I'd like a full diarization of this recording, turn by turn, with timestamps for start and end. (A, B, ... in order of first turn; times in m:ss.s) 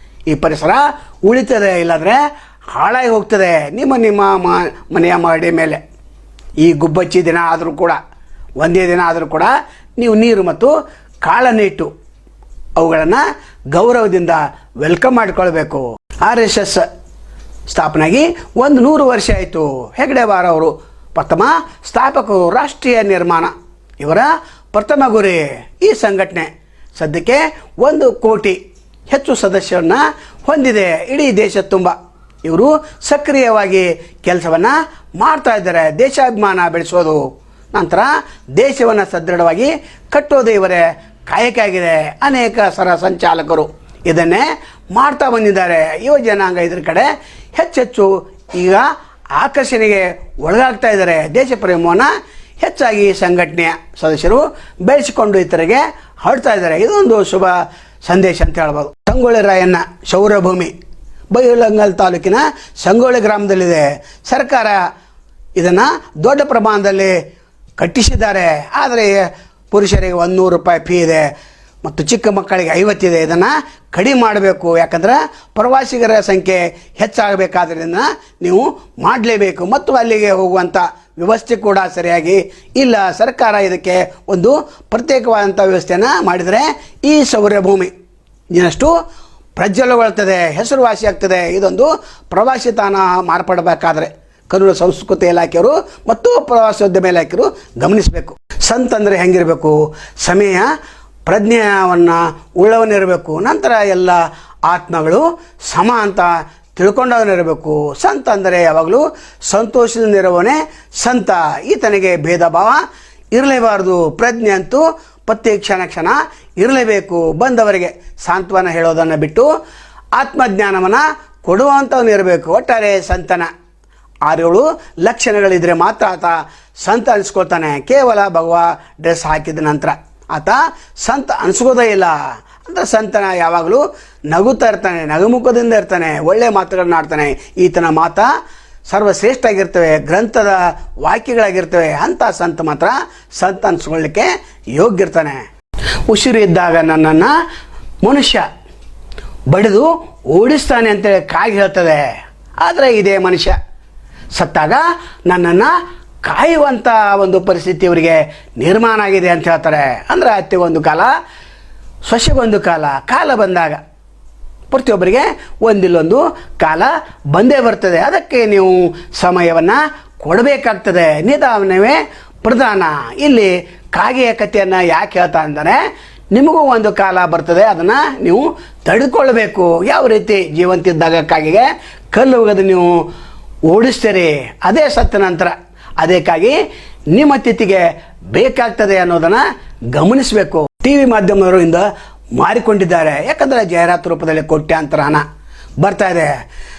0:00.3-0:05.8 A
0:06.6-0:08.0 A
0:08.6-0:11.9 A
0:12.8-0:16.9 A
0:17.7-0:28.6 A
0:29.1-0:37.2 A
0:37.7-1:00.7 A
1:01.3-1:04.8 A
1:05.6-1:07.2 A
1:07.8-1:11.3 A
1:11.8-1:27.9 A
1:28.5-1:28.9 A
1:29.6-1:40.7 A
1:41.2-1:59.5 A
2:00.2-2:03.5 A
2:04.2-2:18.3 A
2:18.9-2:25.4 A
2:26.1-2:27.3 A
2:28.0-2:28.4 A
2:29.5-2:32.0 A
2:32.6-2:33.6 A
2:34.3-2:41.1 A
2:42.0-2:43.8 A
2:44.7-2:55.8 A
2:56.3-3:03.0 A
3:03.7-3:06.6 A
3:07.1-3:15.2 A
3:15.8-3:16.3 A